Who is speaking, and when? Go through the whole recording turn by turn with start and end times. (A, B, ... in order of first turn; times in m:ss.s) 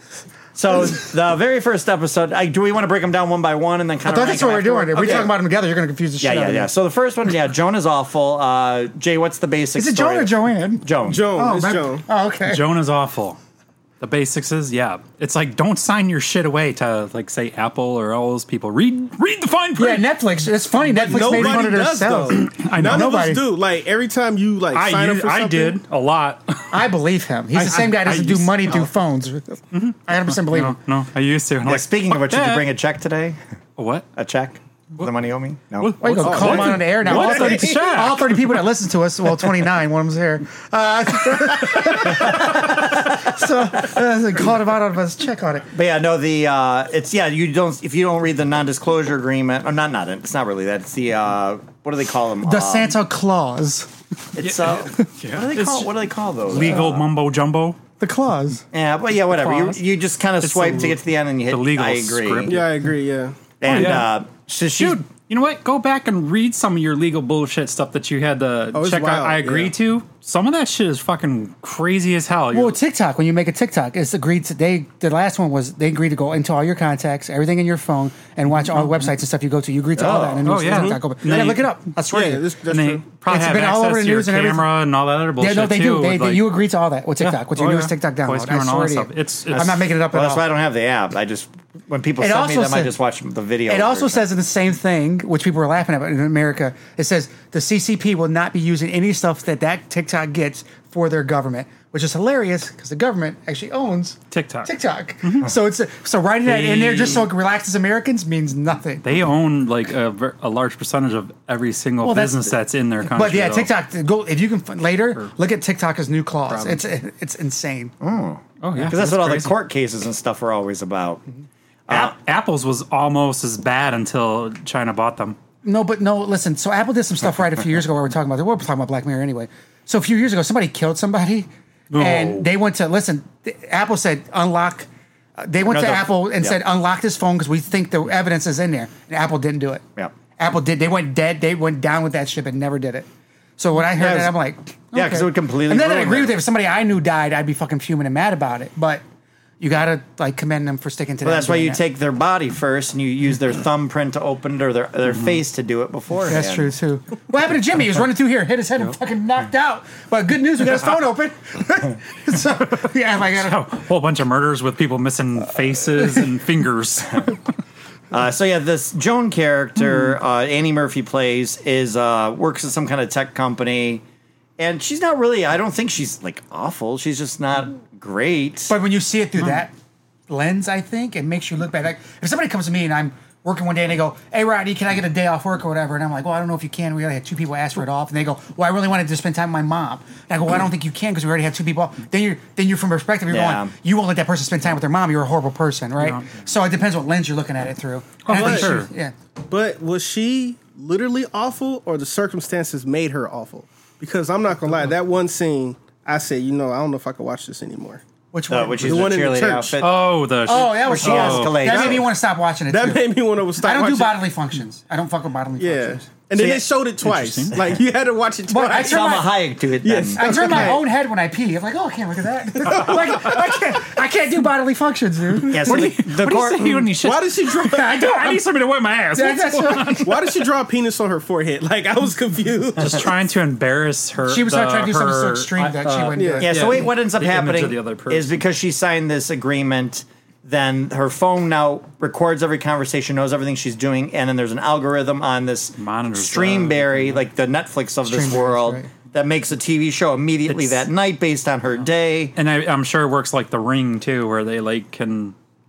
0:00.6-0:05.3 A
0:04.1-0:06.7 B
0:06.2-0:11.4 A
0:09.8-0:12.6 B
0:11.0-0:12.0 C
0:12.5-0:13.4 D
0:14.0-0:20.1 D
0:19.8-0:23.4 B
0:20.9-0:25.8 C
0:21.0-0:21.7 D
0:22.3-0:23.1 D
0:24.7-0:26.8 D
0:26.7-0:30.8 B
0:27.5-0:28.8 D
0:29.7-0:32.7 D
0:31.7-0:33.4 A
0:33.8-0:34.1 D
0:34.2-0:36.4 A
0:35.8-0:38.5 D
0:36.0-0:45.7 B
0:36.2-0:38.1 C
0:42.0-0:42.9 A
0:45.7-0:52.9 A
0:52.4-0:53.9 B
0:54.3-0:57.0 A
0:54.4-0:55.9 D
0:56.5-0:57.8 D
0:58.0-0:58.6 B
0:58.7-1:02.6 A
0:59.3-0:59.8 D
1:00.4-1:02.9 D
1:02.5-1:03.4 C
1:03.6-1:05.1 A
1:03.6-1:04.1 D
1:04.8-1:12.8 D
1:08.7-1:09.7 C
1:12.5-1:22.5 B
1:18.7-1:19.0 D
1:20.0-1:20.5 A
1:20.4-1:21.7 D
1:20.6-1:23.0 C
1:22.7-1:26.5 D
1:23.3-1:24.7 B
1:25.4-1:30.4 B
1:27.2-1:29.9 D
1:29.5-1:34.2 A
1:32.2-1:32.9 B
1:33.7-1:49.2 B
1:44.3-1:44.7 D
1:46.4-1:47.3 D
1:49.0-1:53.7 D
1:52.0-1:57.9 B
1:56.5-1:56.8 D
1:58.0-2:01.2 A
1:58.6-1:59.5 D
2:01.9-2:02.2 A
2:01.9-2:05.4 D
2:05.6-2:19.8 B
2:11.9-2:12.5 D
2:15.6-2:16.6 A
2:20.4-2:23.1 B
2:23.6-2:29.0 B
2:24.0-2:24.3 A
2:24.9-2:26.4 A
2:29.6-2:31.8 B
2:31.2-2:36.7 A
2:36.3-2:43.6 B
2:43.3-2:47.4 D
2:48.1-2:54.0 A
2:54.6-2:58.7 A
2:58.7-2:59.7 B
3:00.3-3:19.1 B
3:13.3-3:13.7 A
3:16.0-3:16.4 D
3:18.2-3:18.9 D
3:18.3-3:18.8 C
3:19.4-3:28.0 C
3:28.3-3:29.1 B
3:28.5-3:32.1 A
3:28.8-3:29.8 C
3:29.8-3:31.7 D
3:30.5-3:36.1 B
3:31.6-3:32.1 C
3:32.7-3:34.2 C
3:35.6-3:39.2 C
3:36.4-3:36.7 A
3:37.0-3:37.7 D
3:38.5-3:39.4 B
3:38.8-3:40.6 A
3:39.8-3:40.8 C
3:40.1-3:46.0 B
3:42.7-3:43.0 C
3:45.4-3:50.4 D
3:45.4-3:46.9 A
3:47.0-3:48.0 C
3:47.6-3:48.4 B
3:49.1-3:50.1 B
3:50.0-3:53.1 C
3:52.8-3:58.3 D
3:54.3-3:56.6 B
3:56.1-3:56.5 C
3:56.4-4:12.3 A
4:05.8-4:07.2 D
4:08.0-4:08.9 B
4:10.5-4:10.9 D
4:12.4-4:15.4 D